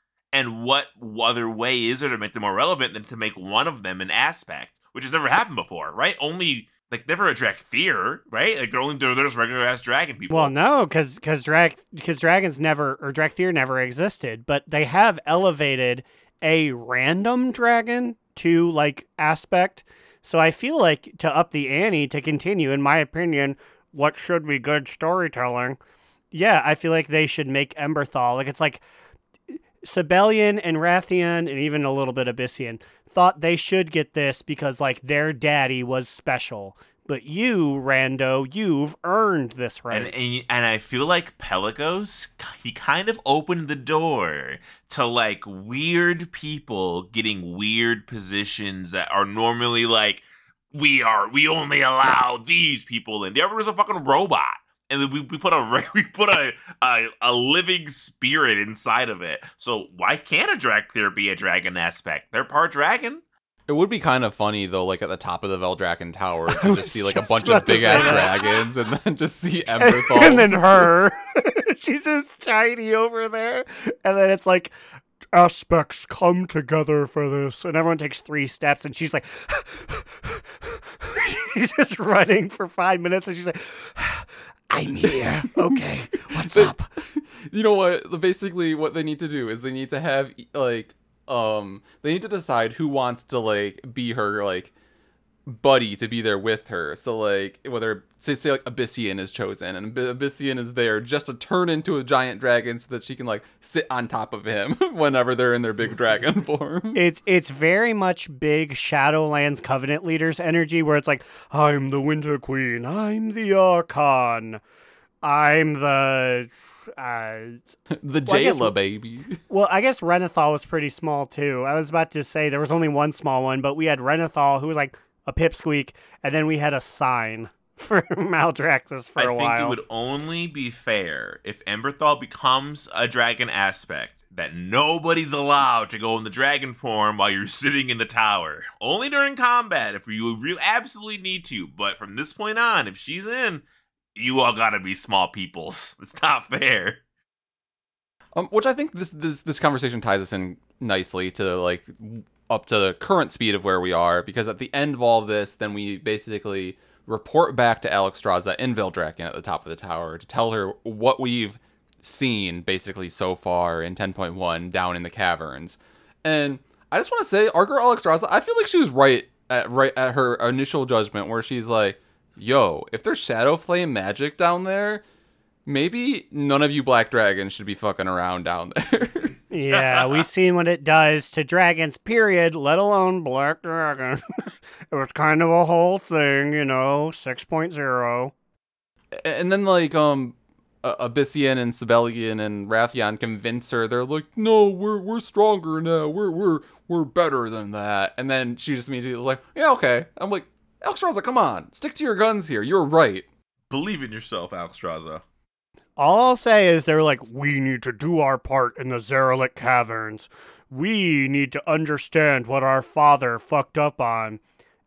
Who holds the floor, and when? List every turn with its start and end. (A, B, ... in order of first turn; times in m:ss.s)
0:00.3-0:10.5 A
0:10.3-0:25.8 B
0:26.3-0:28.8 B
0:29.5-0:40.1 B
0:39.9-1:03.2 A
1:03.7-1:10.9 C
1:06.5-1:08.5 B
1:08.0-1:08.3 A
1:09.8-1:14.8 B
1:15.3-1:26.9 B
1:24.9-1:34.7 C
1:35.5-1:47.1 C
1:47.0-1:54.6 B
1:55.2-1:57.6 B
1:57.9-1:59.4 C
1:58.3-1:58.7 B
1:59.5-2:09.8 B
2:09.2-2:23.6 A
2:24.1-2:27.0 A
2:28.4-2:55.0 C
2:55.7-2:59.3 C
2:59.5-3:08.3 B
2:59.7-3:00.2 A
3:09.1-3:23.3 C
3:23.7-3:25.2 A
3:26.0-3:34.4 B